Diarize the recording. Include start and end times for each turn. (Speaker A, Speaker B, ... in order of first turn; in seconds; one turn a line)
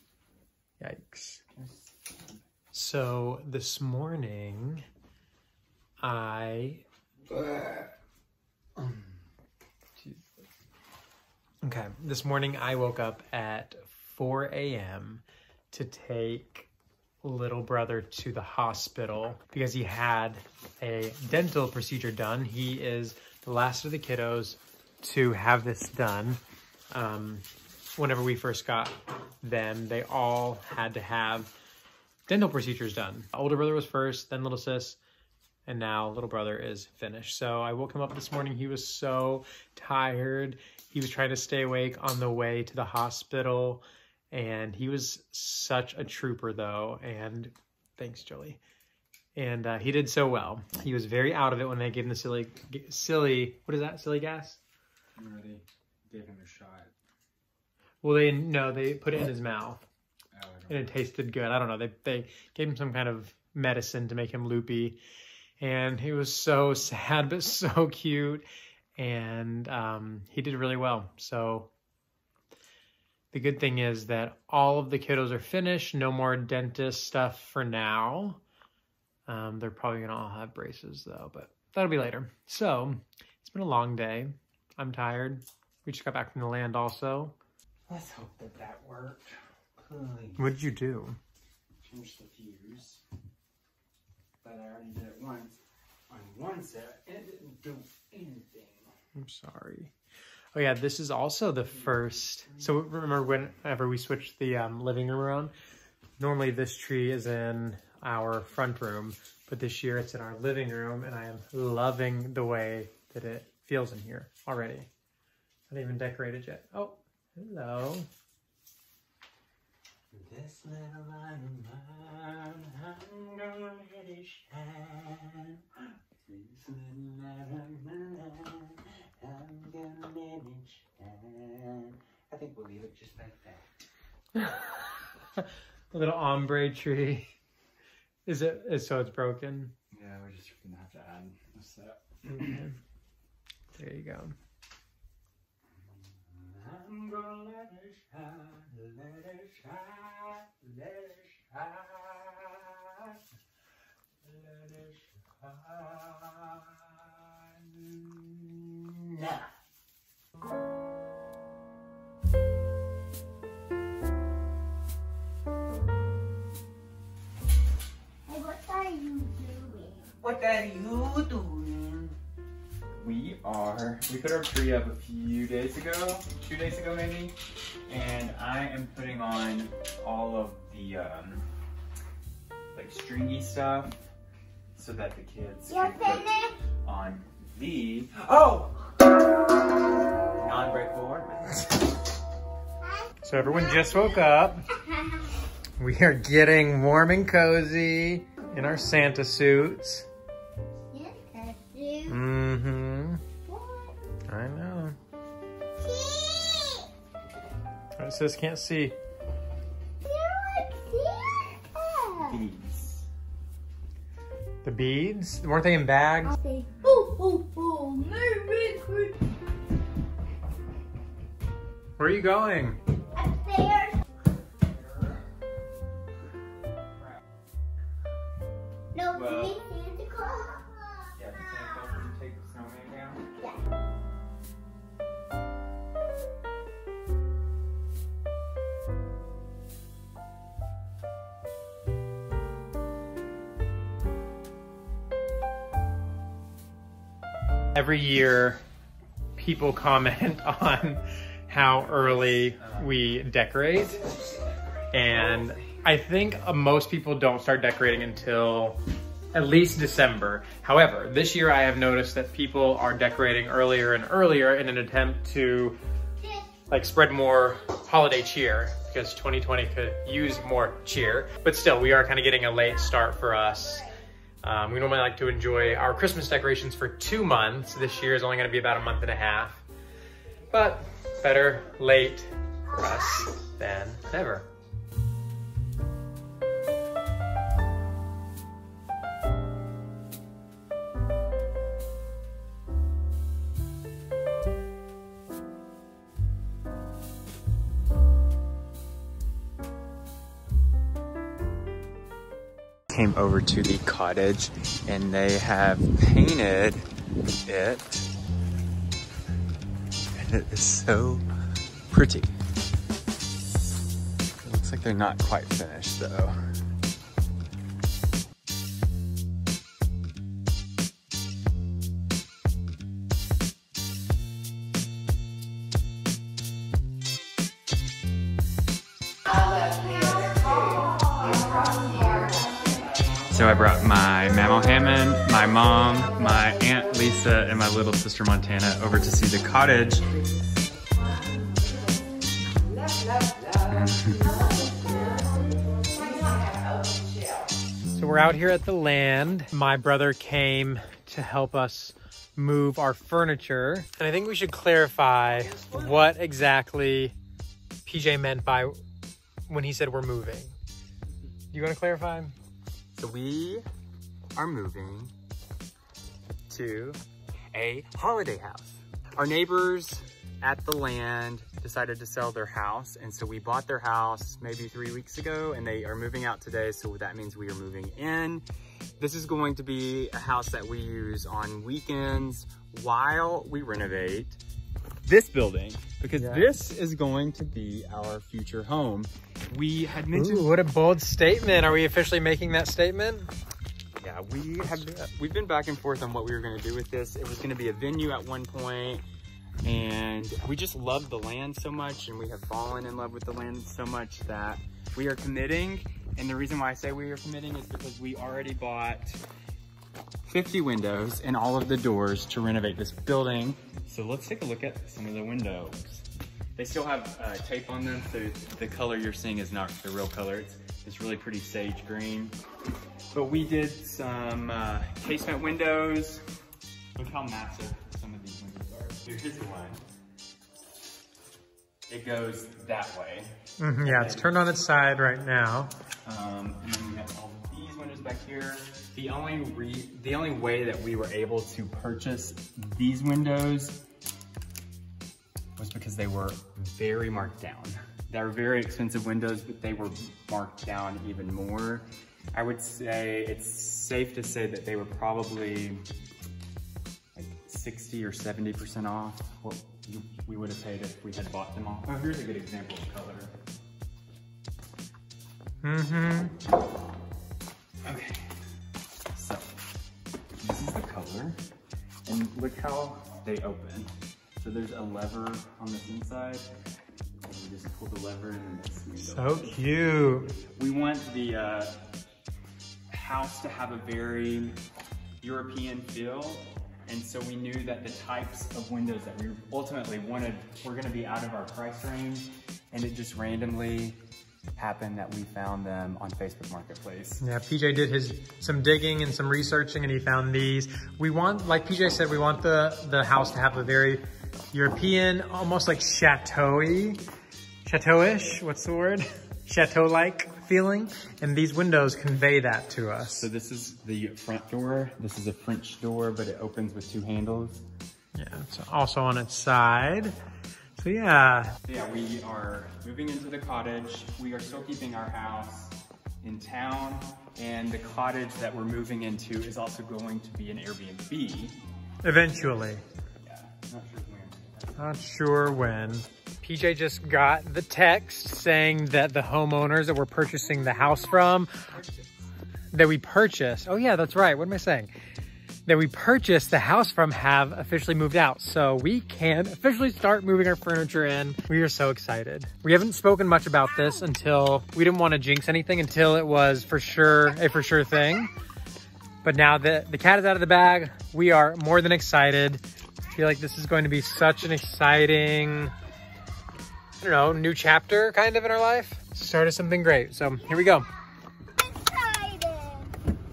Speaker A: 0.8-1.4
Speaker B: 1.5-2.4
Speaker A: 2.7-4.8
Speaker A: 6.0-6.8
Speaker B: 7.3-7.9
Speaker B: 8.8-9.2
Speaker A: 11.6-16.7
Speaker A: 17.2-26.4
Speaker A: 26.9-27.4
Speaker A: 28.0-31.5
Speaker A: 32.3-35.0
Speaker A: 35.7-48.6
Speaker A: 49.4-54.6
Speaker B: 55.2-56.9
Speaker A: 58.0-59.9
Speaker B: 60.3-61.0
Speaker A: 60.7-65.0
Speaker A: 65.6-68.5
Speaker A: 69.0-71.7
Speaker A: 73.3-78.4
Speaker A: 79.3-87.4
Speaker B: 87.9-90.5
Speaker A: 90.4-91.2
Speaker B: 91.8-93.0
Speaker B: 94.4-95.6
Speaker B: 96.1-98.9
Speaker A: 99.2-99.9
Speaker A: 100.5-105.5
Speaker B: 101.7-102.8
Speaker A: 106.2-114.9
Speaker A: 115.7-118.1
Speaker B: 120.1-133.7
Speaker A: 134.3-137.3
Speaker A: 138.3-139.7
Speaker B: 139.9-142.6
Speaker A: 142.3-142.8
Speaker A: 143.8-144.3
Speaker B: 146.0-153.2
Speaker B: 154.2-159.5
Speaker C: 168.3-170.1
Speaker B: 170.2-172.2
Speaker B: 173.0-177.4
Speaker B: 177.9-181.5
Speaker B: 182.7-183.9
Speaker B: 184.8-186.3
Speaker C: 185.7-186.6
Speaker B: 186.8-188.8
Speaker B: 190.4-191.8
Speaker A: 193.2-194.7
Speaker C: 193.6-194.1
Speaker A: 195.8-200.1
Speaker C: 200.9-202.2
Speaker A: 202.1-203.2
Speaker C: 203.5-203.9
Speaker A: 204.3-205.0
Speaker C: 205.8-206.9
Speaker A: 208.0-209.0
Speaker C: 210.0-212.4
Speaker B: 212.2-213.1
Speaker A: 214.6-216.3
Speaker C: 216.3-219.2
Speaker A: 222.0-222.8
Speaker C: 223.2-224.0
Speaker B: 224.7-225.2
Speaker C: 228.9-231.2
Speaker B: 229.1-229.6
Speaker B: 231.2-233.3
Speaker A: 247.8-248.6
Speaker A: 249.4-254.0
Speaker B: 251.7-253.0
Speaker A: 254.9-258.8
Speaker B: 255.1-255.4
Speaker A: 259.3-265.8
Speaker C: 266.2-266.5
Speaker A: 266.7-273.9
Speaker A: 274.4-279.6
Speaker A: 280.5-284.5
Speaker B: 302.9-306.9
Speaker B: 307.4-308.1
Speaker B: 310.1-311.2
Speaker B: 311.9-312.4
Speaker B: 314.4-316.4
Speaker C: 329.9-330.2
Speaker B: 333.3-340.1
Speaker B: 343.6-344.4
Speaker C: 344.3-345.2
Speaker A: 347.9-357.1
Speaker A: 357.9-358.8
Speaker A: 359.5-360.6
Speaker A: 361.5-362.4
Speaker B: 362.9-363.7
Speaker B: 364.4-365.1
Speaker B: 366.5-367.0
Speaker B: 367.5-378.5
Speaker B: 379.0-384.4
Speaker B: 385.0-390.5
Speaker A: 386.2-386.5
Speaker A: 390.1-393.3
Speaker B: 394.0-399.0
Speaker A: 394.7-395.1
Speaker B: 399.6-409.2
Speaker B: 410.2-422.3
Speaker B: 423.1-426.2
Speaker B: 427.0-429.8
Speaker B: 431.9-434.3
Speaker A: 433.6-435.7
Speaker B: 436.1-443.8
Speaker B: 445.6-455.9
Speaker B: 457.1-463.3
Speaker A: 465.6-466.3
Speaker B: 467.8-468.4
Speaker B: 469.1-469.6
Speaker B: 470.4-471.4
Speaker B: 472.1-476.5
Speaker B: 477.2-479.6
Speaker A: 479.0-480.4
Speaker B: 480.4-481.9
Speaker B: 482.9-484.6
Speaker B: 485.2-494.0
Speaker B: 494.6-497.2
Speaker A: 497.2-507.0
Speaker A: 507.6-513.3
Speaker B: 513.1-517.6
Speaker A: 518.1-520.2
Speaker A: 520.8-521.6
Speaker B: 521.6-531.6
Speaker A: 532.0-532.8
Speaker B: 533.2-534.7
Speaker A: 534.8-541.6
Speaker B: 541.6-542.3
Speaker A: 542.7-544.9
Speaker A: 545.7-558.3
Speaker A: 559.2-565.7
Speaker A: 567.0-570.9
Speaker C: 571.5-572.9